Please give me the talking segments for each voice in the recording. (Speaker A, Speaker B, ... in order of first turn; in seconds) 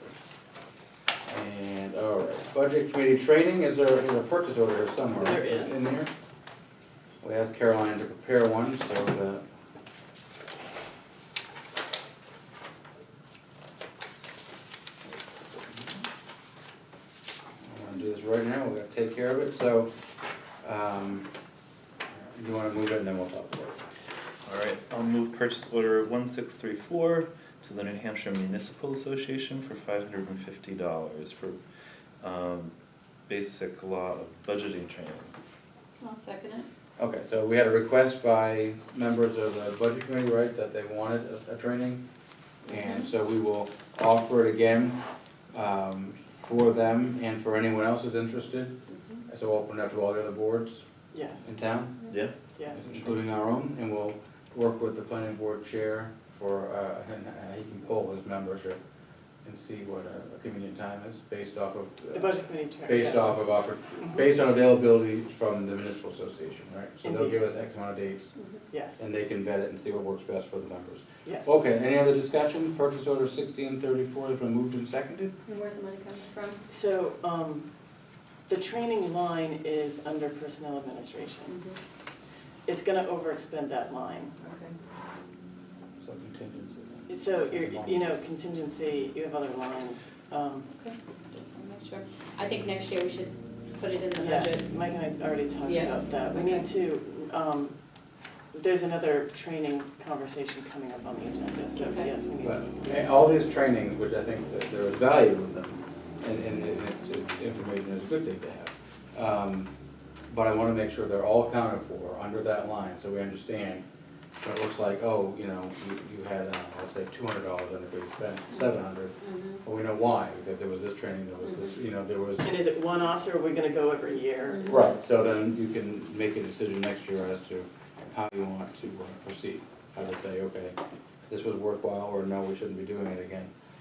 Speaker A: 1.3-6.1, 7.2-9.4, 15.1-16.1, 17.6-19.9, 20.6-21.3, 22.1-23.8, 37.0-42.0, 42.7-45.0, 45.5-48.7, 49.3-50.8, 51.5-52.0, 52.7-58.8, 59.4-68.3, 69.0-75.3, 86.0-88.1, 102.4-109.7, 110.3-113.8, 114.4-122.5, 124.7-130.8, 131.3-133.5
Speaker B: 5.2-5.8, 51.1-51.5, 52.5-53.0, 62.1-63.3, 67.0-67.4, 68.7-69.0, 71.2-71.5, 76.7-77.7, 78.5-81.5, 82.7-84.3, 87.1-90.7, 94.2-97.8, 98.5-103.6, 122.4-124.7
Speaker C: 24.5-31.6, 32.2-32.7, 33.3-35.3, 52.1-52.3
Speaker D: 36.0-36.7, 42.7-43.1, 48.9-49.2, 68.4-68.7, 75.5-76.6, 81.5-81.8, 84.4-84.8, 90.8-94.7, 95.6-96.7, 101.8-102.1, 119.2-119.6, 121.5-121.7, 124.5-125.0